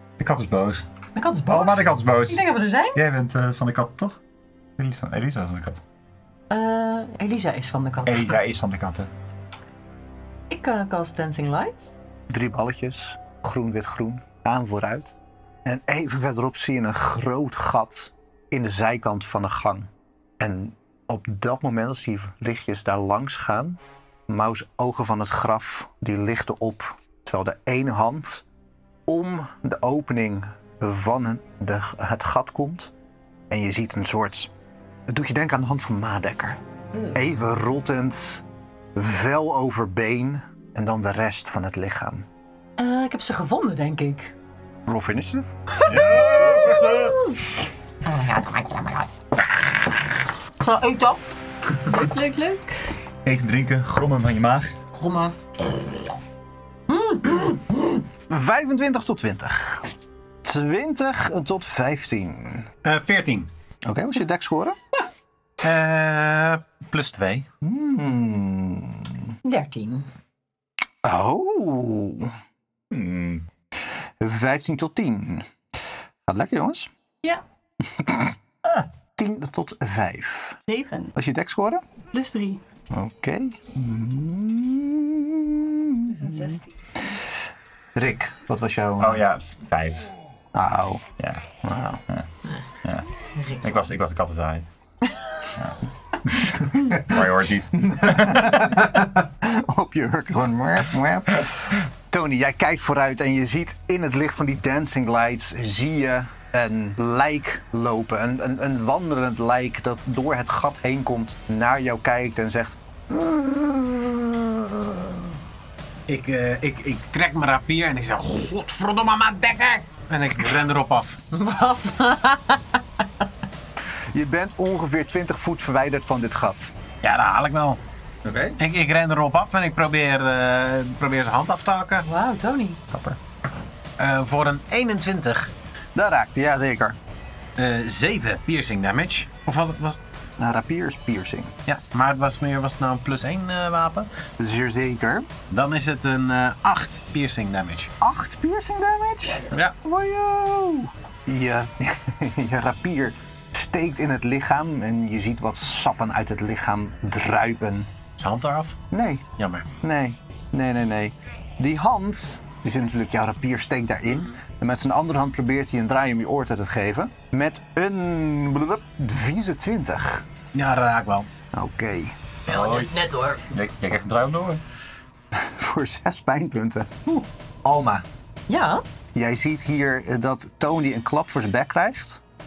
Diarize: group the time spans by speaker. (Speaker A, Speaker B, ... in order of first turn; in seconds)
Speaker A: 0.2-0.9, 1.4-4.2, 4.8-5.8, 8.1-9.1, 45.8-47.3, 53.2-54.7, 72.9-73.5, 89.0-90.1, 91.2-91.6, 93.6-94.7, 95.5-98.8, 172.5-173.0, 173.5-174.6
Speaker B: 1.1-3.0, 6.5-8.4, 10.5-12.0, 42.8-44.3, 45.8-47.3, 48.0-49.0, 50.6-51.3, 54.9-55.4, 56.9-57.6, 69.4-70.1, 93.4-93.7, 121.3-123.0, 132.0-132.8, 172.6-173.4, 178.5-178.8
Speaker C: 12.3-28.4, 29.1-32.9, 33.5-34.5, 35.1-36.6, 37.1-38.4, 39.0-42.3, 44.9-45.5, 58.3-59.9, 60.4-62.7, 63.8-64.8, 67.6-69.3, 71.0-72.3, 74.2-75.5, 76.3-76.9, 77.8-78.4, 79.2-80.6, 81.2-81.8, 82.9-86.6, 88.0-89.2, 90.5-91.0, 91.6-92.0, 96.7-115.3, 124.1-126.7, 128.2-128.6, 135.9-137.0, 140.4-141.6, 144.4-145.3, 148.0-157.9, 158.9-159.3, 159.8-170.2, 171.5-172.2, 175.3-178.1, 179.1-182.2
Speaker D: 51.9-52.8, 80.7-81.1, 82.1-82.6, 86.2-86.6
Speaker E: 62.9-63.5, 65.6-67.5, 116.1-121.2, 127.0-127.8, 128.6-132.1, 134.0-135.5, 137.6-140.0, 141.7-144.1, 145.5-147.9, 158.2-158.8, 159.4-159.7, 170.5-171.3, 172.5-172.8